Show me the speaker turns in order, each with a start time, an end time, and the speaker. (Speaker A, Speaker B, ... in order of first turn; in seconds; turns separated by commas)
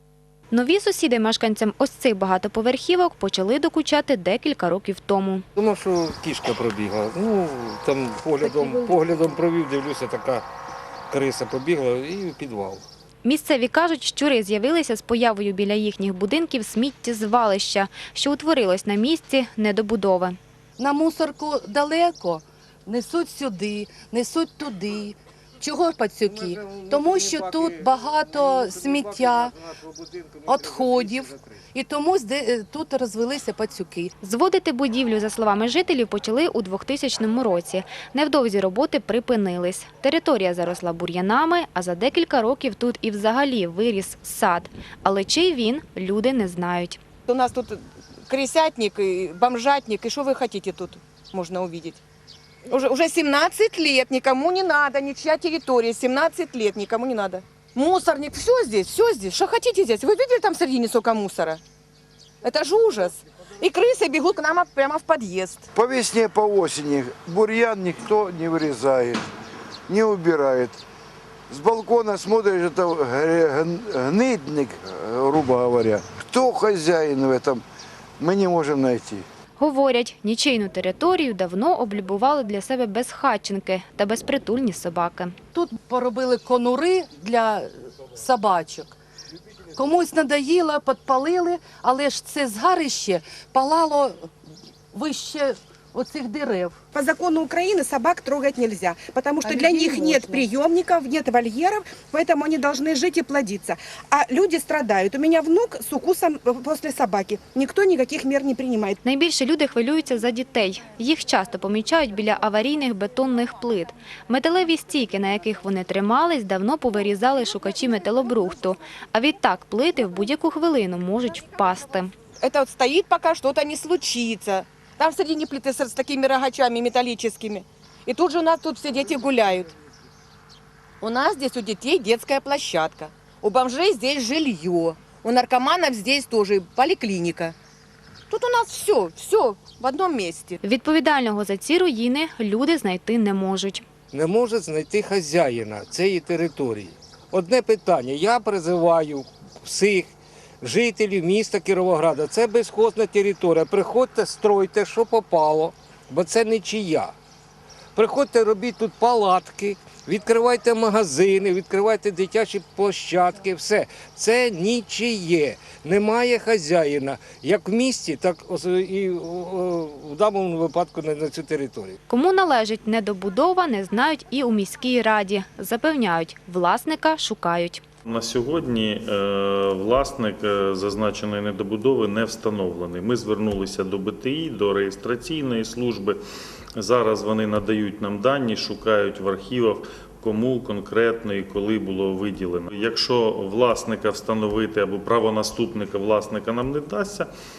Speaker A: 0.5-5.5, Speaker B: 5.6-10.4, Speaker B: 11.1-12.8, Speaker A: 13.2-20.4, Speaker C: 20.8-29.6, Speaker B: 26.2-31.7, Speaker C: 30.5-34.1, Speaker A: 34.2-47.0, Speaker D: 47.3-52.0, Speaker D: 52.7-61.6, Speaker D: 62.4-65.7, Speaker E: 65.7-69.3, Speaker E: 69.9-70.8, Speaker E: 71.5-77.6, Speaker E: 78.2-79.2, Speaker A: 79.6-85.4, Speaker C: 85.5-89.0, Speaker C: 89.7-94.3, Speaker C: 94.9-96.8, Speaker F: 96.9-109.0, Speaker C: 99.4-100.5, Speaker A: 109.0-122.1, Speaker D: 122.4-129.7, Speaker D: 131.0-137.6, Speaker D: 138.3-140.6, Speaker A: 140.6-143.8, Speaker B: 144.1-150.1, Speaker B: 150.6-157.2, Speaker B: 157.9-172.0, Speaker A: 172.1-177.8, Speaker G: 178.1-186.2, Speaker G: 186.8-197.3